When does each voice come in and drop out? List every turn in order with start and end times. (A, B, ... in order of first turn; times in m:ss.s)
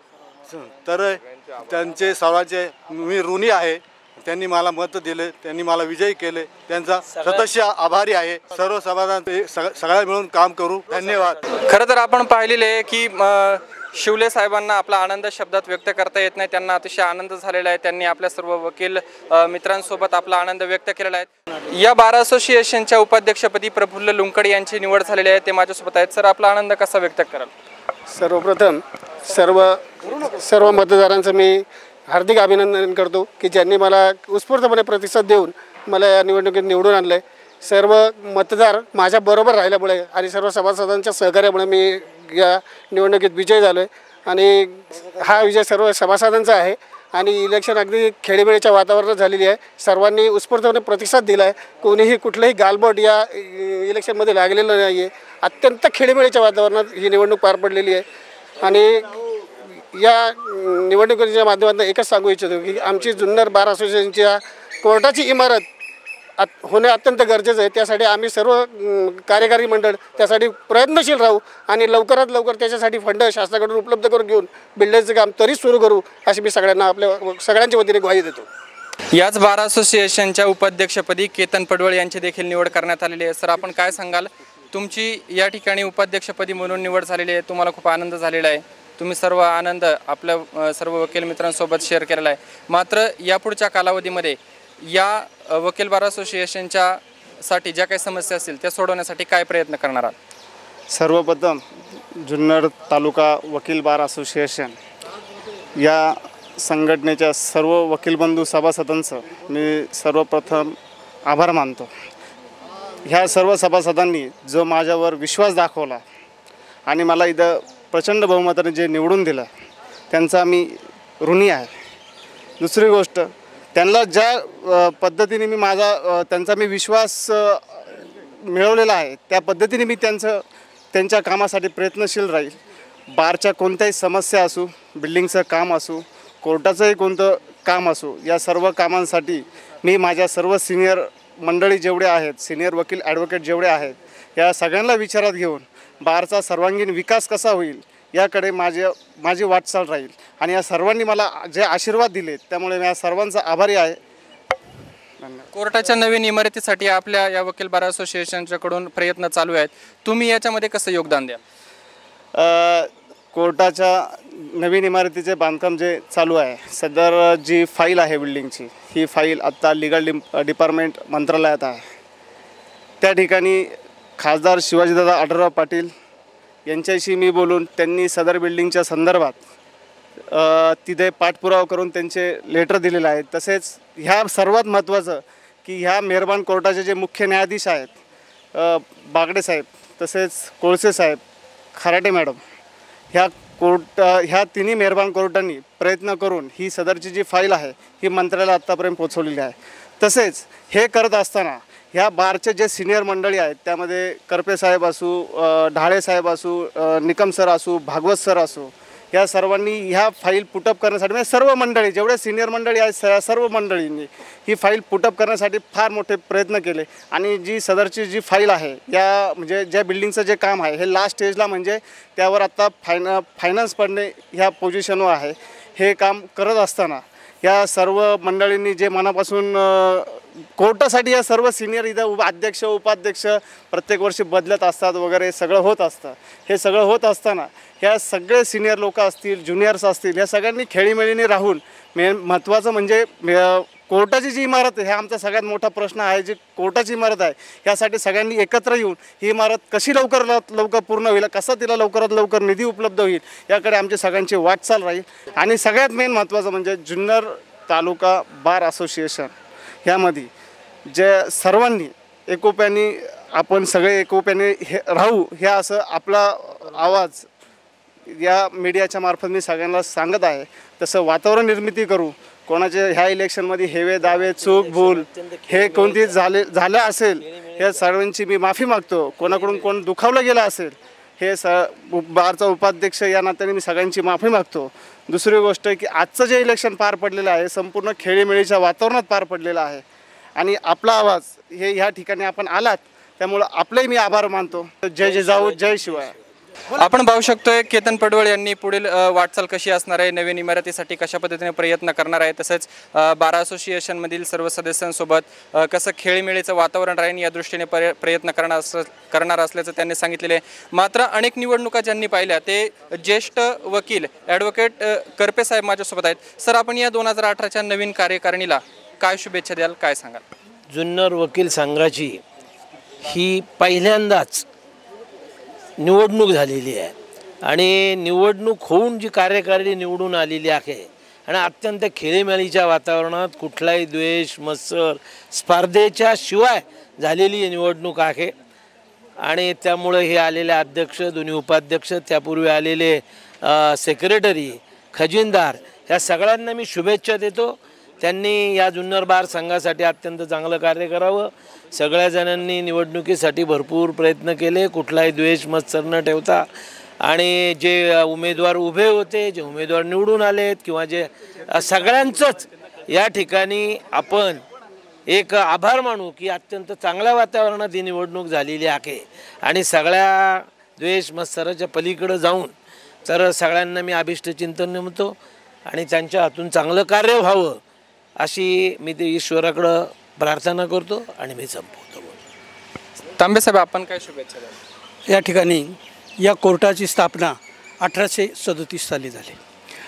0:00.5-0:11.4 A
0:07.1-0:07.5 B
0:10.9-0:11.3 B
0:11.6-0:27.5 C
0:28.1-0:58.0 D
0:58.6-0:59.1 D
0:59.9-1:05.7 D
1:06.4-1:18.5 D
1:19.1-1:40.2 C
1:40.9-1:41.6 E
1:42.2-1:44.8 E
1:45.8-1:50.8 E
1:51.3-1:51.9 E
1:53.0-1:56.0 E
1:56.9-1:59.5 E
2:00.1-2:01.7 E
2:02.6-2:12.6 E
2:13.1-2:34.0 E
2:35.2-2:35.5 E
2:35.5-2:41.4 C
2:42.4-2:51.8 E
2:53.0-2:55.9 E
2:56.7-2:59.4 E
3:00.3-3:08.0 E
3:08.5-3:11.2 E
3:11.8-3:12.4 E
3:13.1-4:19.3 E
4:19.8-4:20.3 E
4:20.9-4:27.3 E
4:28.1-4:49.8 E
4:34.0-4:36.2 B
4:37.2-4:37.9 B
4:39.2-4:39.7 B
4:50.4-4:56.1 E
4:55.0-4:56.0 B
4:56.8-5:20.2 C
5:20.7-5:22.2 B
5:23.0-5:24.5 B
5:25.8-5:26.9 B
5:27.5-5:38.3 B
5:39.2-5:56.5 B
5:57.0-6:04.4 B
6:05.1-6:12.5 B
6:13.1-6:15.2 B
6:15.7-6:17.6 B
6:18.2-6:22.2 B
6:23.2-6:24.5 C
6:25.1-6:29.4 F